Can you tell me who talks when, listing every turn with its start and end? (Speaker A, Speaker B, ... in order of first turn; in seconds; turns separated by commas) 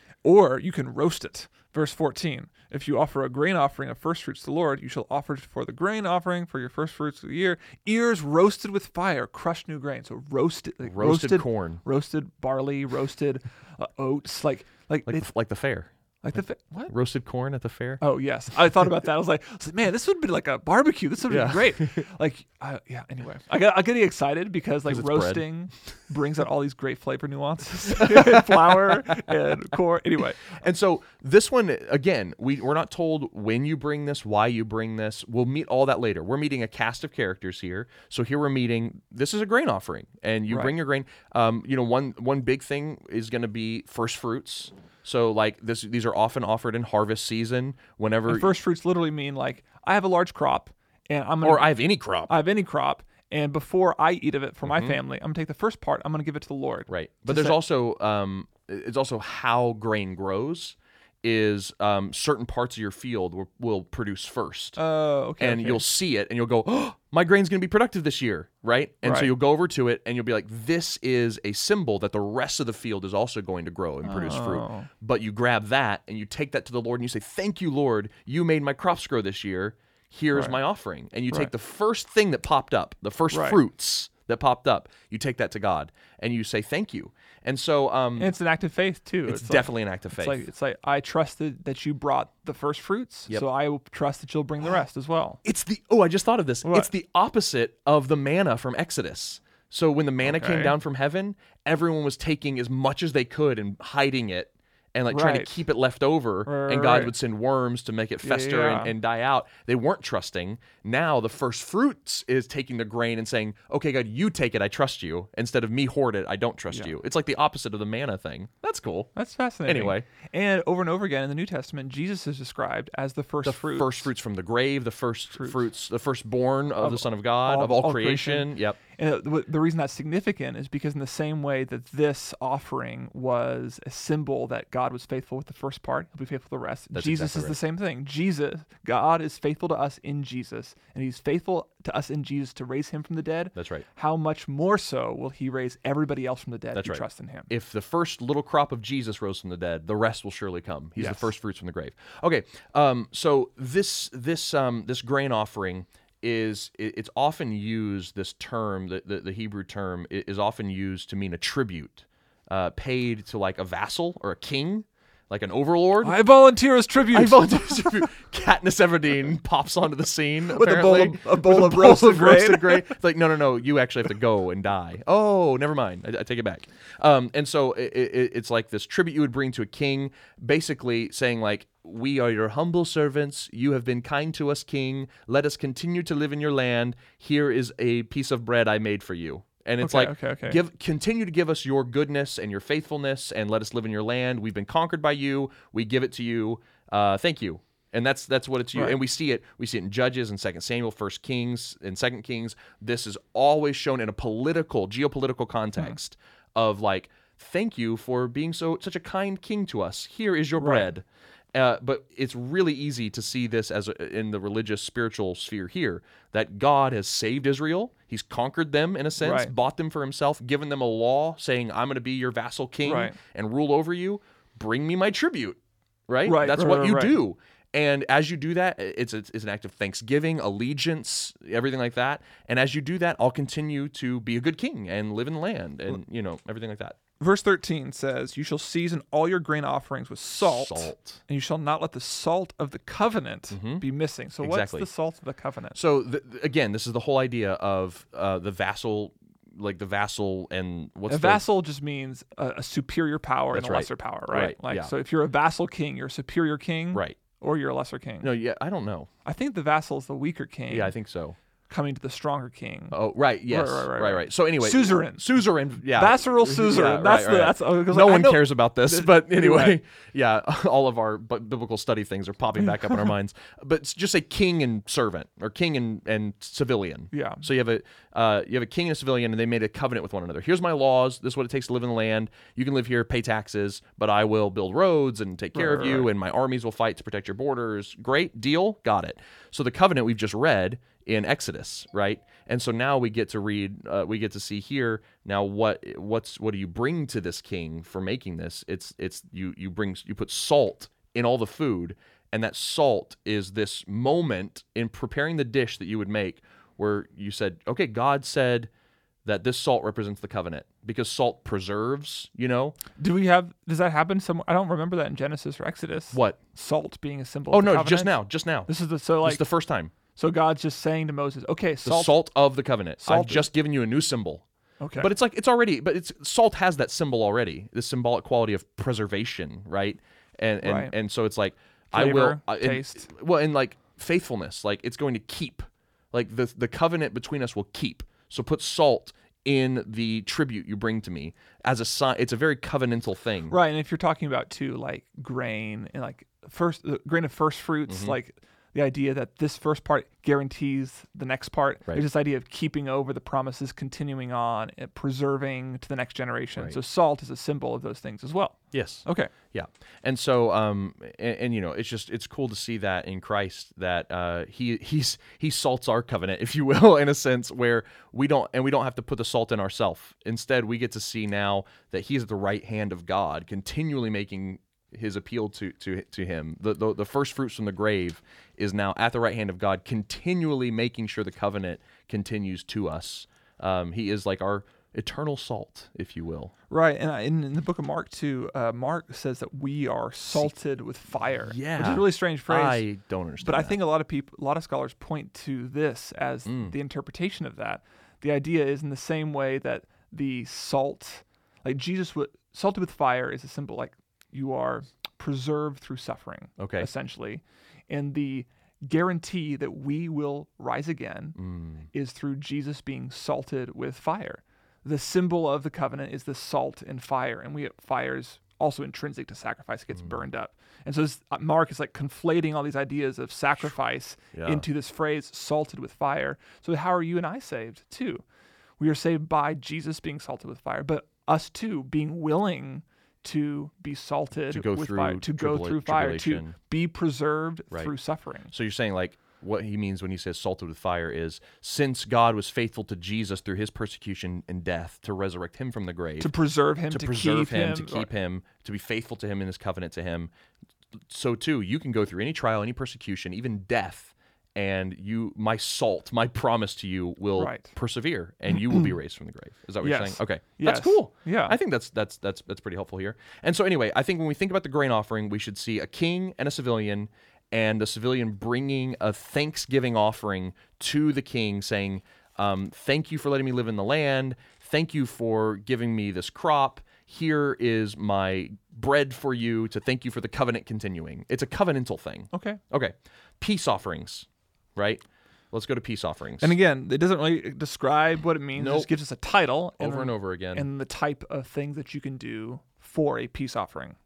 Speaker A: 0.2-15.2, Speaker B: 10.8-11.8, Speaker B: 15.1-15.9, Speaker A: 16.2-16.9, Speaker B: 16.9-18.0, Speaker A: 18.0-30.5, Speaker B: 21.3-22.1, Speaker B: 24.9-25.4, Speaker B: 28.0-29.3, Speaker B: 30.5-48.5, Speaker A: 48.3-57.6, Speaker B: 51.4-52.4, Speaker B: 54.6-55.0, Speaker B: 56.9-64.8, Speaker A: 64.8-65.8, Speaker B: 65.4-88.3, Speaker A: 69.0-69.3, Speaker A: 74.0-74.9, Speaker A: 83.3-83.6, Speaker A: 88.2-95.4, Speaker B: 89.3-90.4, Speaker B: 95.4-119.1, Speaker A: 96.6-96.9, Speaker A: 100.2-100.7, Speaker A: 105.1-105.5, Speaker A: 106.5-107.1, Speaker A: 108.2-108.9, Speaker A: 119.1-124.1, Speaker B: 119.6-120.1, Speaker B: 123.4-128.8, Speaker A: 126.8-147.5, Speaker B: 136.9-137.6, Speaker B: 143.5-143.8, Speaker B: 146.7-166.2, Speaker A: 151.0-151.3, Speaker A: 166.0-168.1, Speaker B: 167.1-237.0, Speaker A: 170.4-173.0, Speaker A: 189.8-190.6, Speaker A: 210.6-210.9, Speaker A: 219.2-219.5, Speaker A: 222.8-223.2, Speaker A: 226.2-227.2, Speaker A: 237.2-245.8, Speaker B: 240.4-241.2, Speaker B: 243.5-243.8, Speaker B: 244.4-244.8, Speaker B: 245.7-251.4, Speaker A: 251.1-258.3, Speaker B: 253.5-254.9, Speaker B: 256.9-257.2, Speaker B: 258.2-259.1, Speaker A: 259.2-260.9, Speaker B: 260.7-261.4, Speaker A: 261.7-262.9, Speaker B: 262.9-308.7, Speaker A: 263.5-269.8, Speaker A: 277.1-277.4, Speaker A: 285.5-286.1, Speaker B: 309.2-312.8, Speaker A: 312.9-319.4, Speaker B: 316.1-316.4, Speaker B: 317.5-319.9, Speaker A: 320.1-322.2, Speaker B: 321.8-324.4, Speaker A: 323.0-323.5, Speaker A: 324.8-325.1, Speaker B: 325.0-343.5, Speaker A: 330.6-330.9, Speaker A: 331.9-333.1, Speaker A: 343.5-359.3, Speaker B: 347.9-348.1, Speaker B: 358.7-386.5, Speaker A: 386.7-392.9, Speaker B: 391.4-393.8, Speaker A: 393.4-411.4, Speaker B: 396.4-396.7, Speaker B: 406.6-406.9, Speaker B: 411.4-411.9, Speaker A: 411.9-428.2, Speaker B: 424.3-424.6, Speaker A: 428.8-438.5, Speaker B: 434.5-436.5, Speaker B: 438.5-446.3, Speaker A: 446.2-448.1, Speaker B: 446.9-450.3, Speaker B: 451.1-486.6, Speaker A: 457.4-457.7, Speaker A: 459.8-461.6, Speaker A: 482.3-482.6, Speaker A: 486.4-494.0, Speaker B: 488.6-488.9, Speaker B: 489.8-490.7